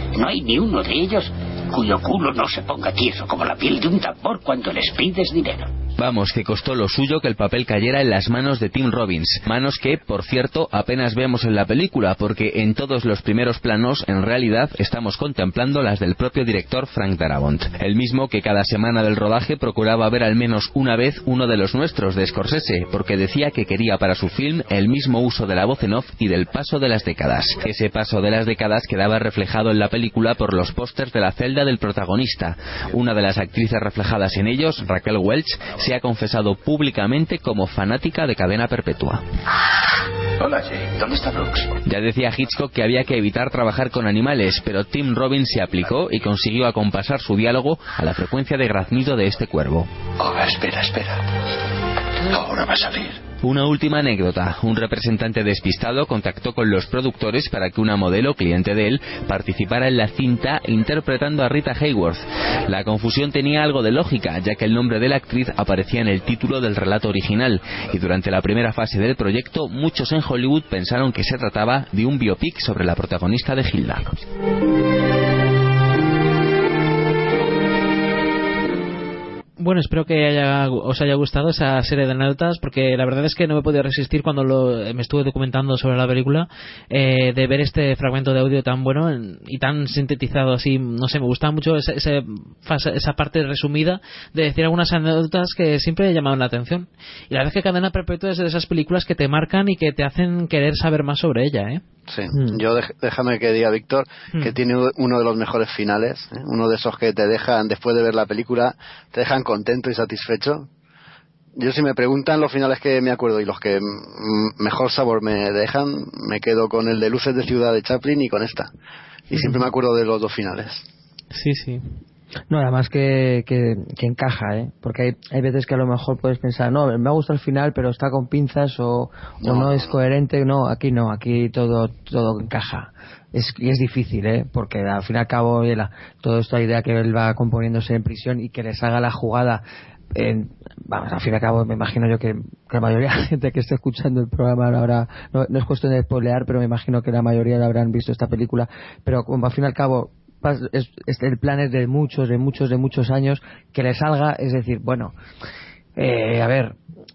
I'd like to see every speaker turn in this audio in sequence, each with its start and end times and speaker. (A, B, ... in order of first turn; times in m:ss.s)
0:00.1-0:05.7 A
0:06.0-0:39.2 B
0:40.4-0:41.7 C
0:41.8-0:49.9 B
0:50.2-0:51.2 C
0:52.2-0:53.2 C
0:53.4-1:14.2 B
1:19.6-1:41.8 D
1:42.1-1:50.7 E
1:51.6-1:58.7 E
1:59.3-2:00.8 E
1:59.3-1:59.6 D
2:01.3-2:01.8 D
2:02.5-2:19.6 F
2:09.4-2:09.9 E
2:20.1-2:35.1 F
2:36.0-2:36.8 F